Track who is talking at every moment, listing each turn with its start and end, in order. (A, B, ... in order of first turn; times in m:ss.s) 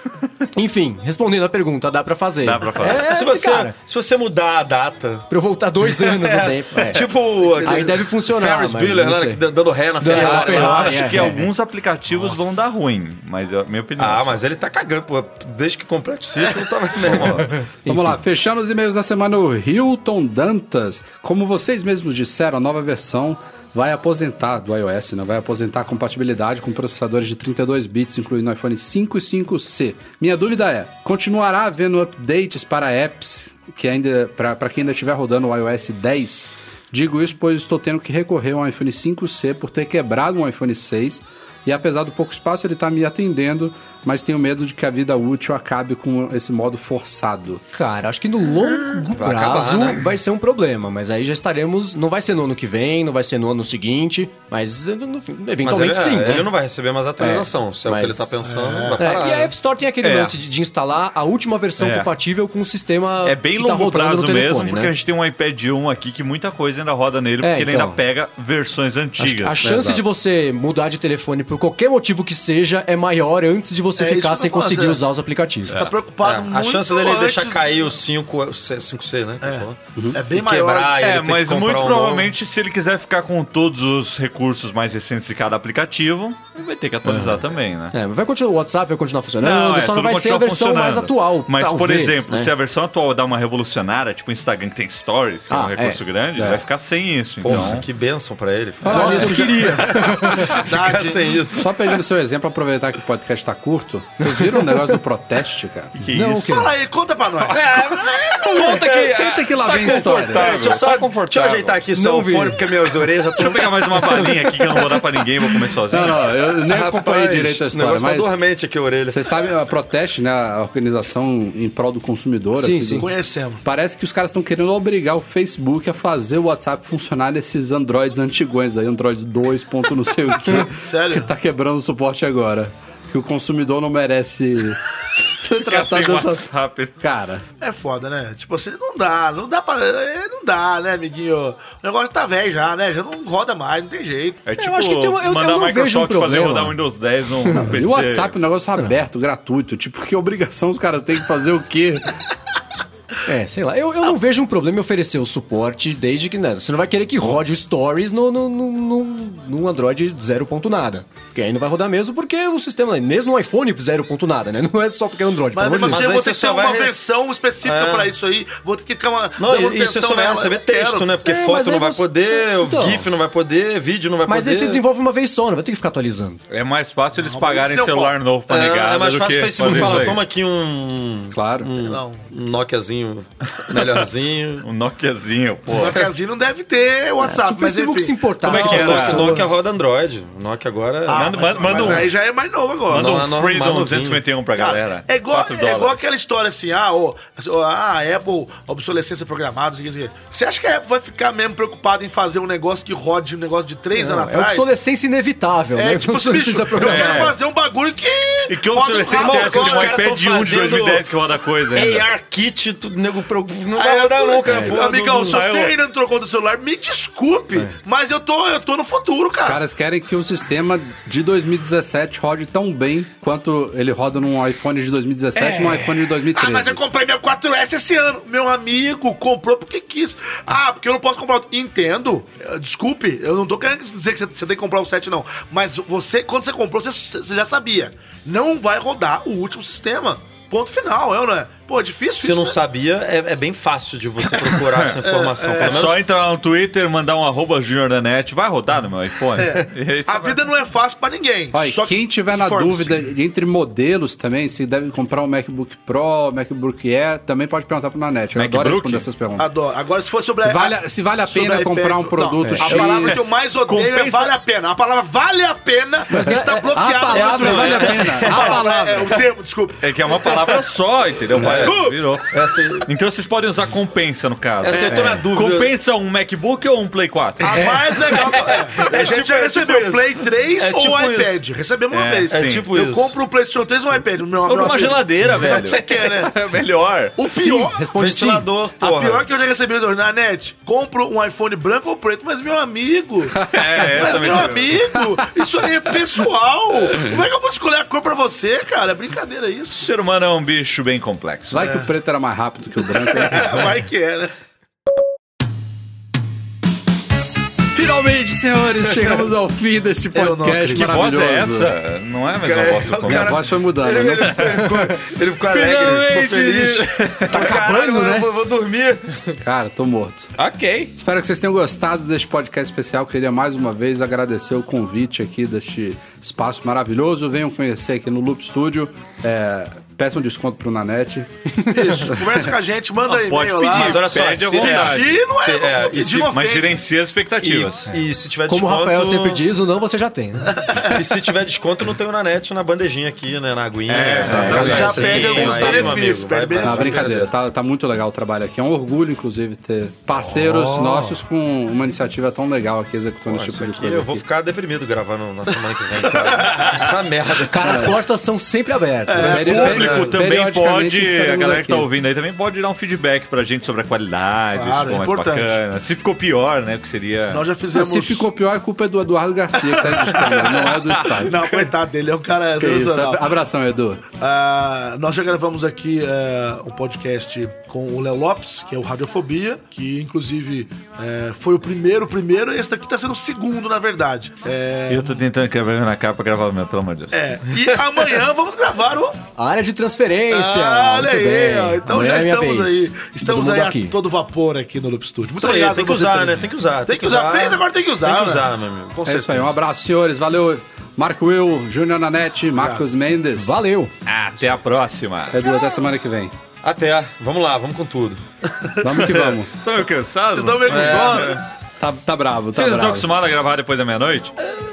0:00.5-0:03.8 A
0:02.4-0:03.0 B
0:02.9-0:05.3 C
0:05.3-0:09.4 A
0:05.9-0:11.4 C
0:07.6-0:07.9 D
0:10.0-0:11.4 A
0:10.1-0:14.3 B
0:14.0-0:17.6 C
0:17.8-0:18.2 A
0:17.9-0:47.6 E
0:47.7-0:56.5 A
0:49.1-0:50.0 C
0:55.6-0:59.5 C
0:57.2-0:58.4 A
0:58.4-0:59.1 D
0:59.0-1:04.9 A
1:00.0-1:00.4 B
1:01.8-1:02.1 B
1:03.2-1:09.9 B
1:07.4-1:08.0 A
1:09.2-1:15.9 A
1:09.6-1:10.0 E
1:14.0-1:15.0 D
1:15.7-1:17.9 D
1:16.2-1:22.3 C
1:19.4-1:21.0 D
1:21.0-1:28.0 B
1:27.1-1:27.4 A
1:27.9-1:32.3 A
1:29.4-1:37.9 B
1:35.5-1:36.0 A
1:36.4-1:36.6 E
1:37.4-1:39.5 C
1:38.8-1:39.8 E
1:38.9-1:40.6 A
1:39.9-1:40.5 B
1:40.3-1:41.7 C
1:40.4-1:41.5 D
1:41.5-1:46.1 E
1:46.0-1:46.6 B
1:46.1-1:46.7 A
1:46.4-1:47.6 D
1:47.4-1:53.8 C
1:47.5-1:51.8 B
1:48.6-1:50.5 E
1:52.0-1:52.9 A
1:53.4-1:56.2 B
1:54.0-1:54.3 A
1:55.9-1:58.3 E
1:56.7-1:59.2 C
1:59.1-2:03.1 E
2:02.6-2:03.1 A
2:03.0-2:03.6 D
2:03.6-2:16.5 E
2:10.5-2:11.3 D
2:15.6-2:17.0 B
2:17.0-2:17.4 E
2:17.6-2:24.4 D
2:24.5-2:28.3 B
2:24.6-2:26.8 A
2:27.6-2:32.2 E
2:33.3-2:46.0 A
2:45.5-2:51.1 D
2:45.9-2:46.9 C
2:47.6-2:48.1 C
2:49.4-2:54.8 C
2:51.2-2:53.1 A
2:54.3-2:56.4 A
2:56.5-3:00.2 B
2:57.2-2:58.2 D
2:58.5-3:04.7 C
3:01.3-3:01.7 E
3:01.8-3:02.3 D
3:03.5-3:04.1 B
3:04.6-3:06.1 B
3:05.7-3:09.3 D
3:07.2-3:09.5 A
3:08.4-3:12.1 C
3:08.4-3:09.3 B
3:11.1-3:13.2 D
3:11.1-3:12.1 B
3:12.9-3:16.1 B
3:12.9-3:14.2 C
3:14.6-3:24.7 D
3:23.9-3:27.3 A
3:25.8-3:30.1 D
3:26.8-3:27.4 B
3:28.5-3:32.1 B
3:29.1-3:31.1 C
3:31.7-3:35.5 C
3:33.8-3:39.6 D
3:34.4-3:34.8 A
3:35.2-3:35.8 B
3:39.3-3:46.8 E
3:45.4-4:02.6 D
4:02.2-4:06.0 C
4:04.4-4:05.0 B
4:05.0-4:05.9 D
4:05.6-4:10.4 B
4:09.4-4:13.0 D
4:11.5-4:19.5 E
4:18.3-4:19.1 B
4:19.4-4:30.7 D
4:20.4-4:23.3 E
4:22.4-4:22.8 A
4:22.7-4:24.3 B
4:26.1-4:26.5 A
4:26.1-4:29.2 E
4:27.1-4:28.6 C
4:29.8-4:32.3 B
4:31.3-4:32.1 D
4:31.4-4:32.9 C
4:32.8-4:38.5 B
4:34.6-4:35.7 C
4:34.9-4:35.2 A
4:37.4-4:46.4 D
4:38.1-4:41.4 C
4:41.9-4:42.7 B
4:42.3-4:43.2 C
4:44.4-4:47.2 B
4:47.2-4:47.9 D
4:47.3-4:48.5 A
4:47.9-4:49.3 C
4:48.8-4:59.8 D
4:53.4-4:53.7 E
4:53.5-4:54.9 B
4:59.7-5:01.6 B
5:01.5-5:03.8 E
5:01.6-5:01.9 D
5:03.0-5:04.3 D
5:07.7-5:11.8 E
5:10.1-5:10.9 D
5:10.8-5:13.4 B
5:12.4-5:19.2 C
5:13.0-5:14.4 E
5:14.2-5:14.8 B
5:15.5-5:17.6 B
5:17.3-5:18.3 A
5:19.4-5:20.3 E
5:20.4-5:20.9 B
5:21.0-5:32.2 E
5:31.7-5:36.8 D
5:33.0-5:35.2 B
5:33.7-5:36.4 C
5:36.3-5:38.0 B
5:37.4-5:39.4 C
5:38.5-5:40.6 A
5:40.6-5:41.0 D
5:40.8-5:47.3 C
5:43.9-5:45.8 B
5:44.2-5:47.2 D
5:44.3-5:46.0 E
5:44.3-5:44.8 A
5:46.6-5:54.2 E
5:50.5-5:51.0 D
5:53.3-5:58.0 C
5:56.0-5:56.6 D
5:56.4-5:56.9 B
5:57.5-5:59.7 A
5:59.1-6:00.0 D
5:59.2-6:01.9 E
5:59.3-6:07.5 B
5:59.5-6:00.2 C
6:04.6-6:05.6 D
6:07.3-6:08.2 D
6:07.7-6:11.4 E
6:09.7-6:11.7 B
6:11.3-6:13.2 D
6:12.6-6:14.0 E
6:14.2-6:25.1 D
6:24.9-6:27.2 B
6:27.1-6:29.2 D
6:29.4-6:34.0 A
6:30.3-6:39.5 D
6:35.4-6:39.0 C
6:39.0-6:43.6 E
6:43.4-6:43.9 A
6:44.1-6:45.4 B
6:45.3-6:46.3 E
6:46.6-6:48.2 C
6:48.6-6:49.0 D
6:48.8-6:49.5 E
6:48.9-6:51.3 B
6:50.3-6:51.4 D
6:50.6-6:51.4 C
6:51.8-6:53.4 E
6:52.5-6:54.3 B